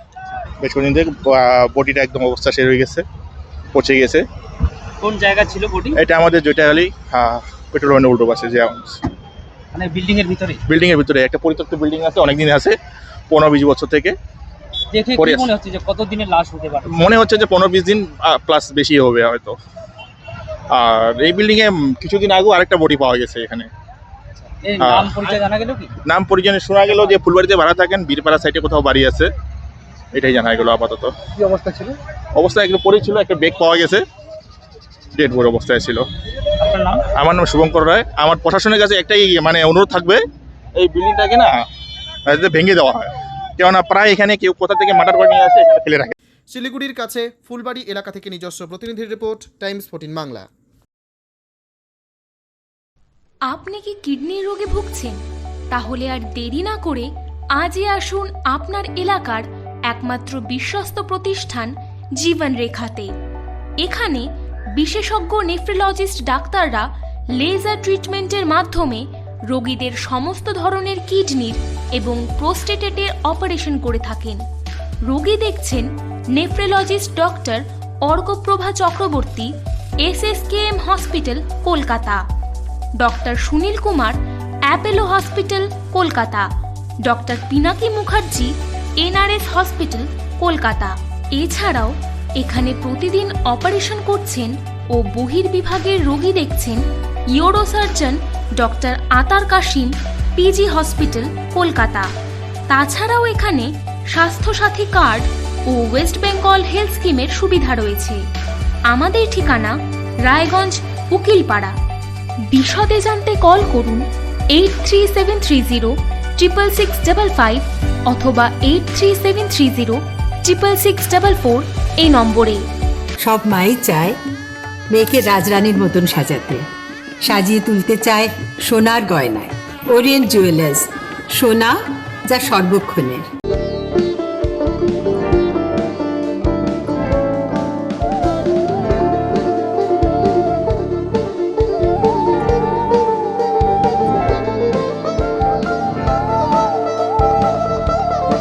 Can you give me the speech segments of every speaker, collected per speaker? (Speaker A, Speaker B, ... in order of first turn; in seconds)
Speaker A: 0.6-3.0, 3.7-4.2, 5.9-9.0, 10.7-12.8, 13.3-14.1, 15.2-15.5, 16.9-19.6, 20.7-23.7, 24.8-25.2, 26.0-29.3, 30.1-31.1, 32.3-34.0, 35.1-36.0, 37.1-40.2, 40.8-41.5, 42.3-46.1
Speaker B: 5.0-6.0, 9.7-10.6, 14.9-16.9, 24.6-25.9, 31.4-32.0, 36.6-37.0
Speaker C: 46.5-50.5
Speaker D: 53.5-55.2, 55.7-63.1, 63.8-66.9, 67.4-74.4, 75.0-79.5, 80.0-82.2, 83.0-84.2, 84.7-86.5, 87.0-96.8, 97.3-102.1, 102.7-108.2, 108.9-111.7, 112.5-114.0, 114.5-122.6
Speaker E: 123.2-124.1, 124.9-126.6, 127.2-131.8, 132.3-133.2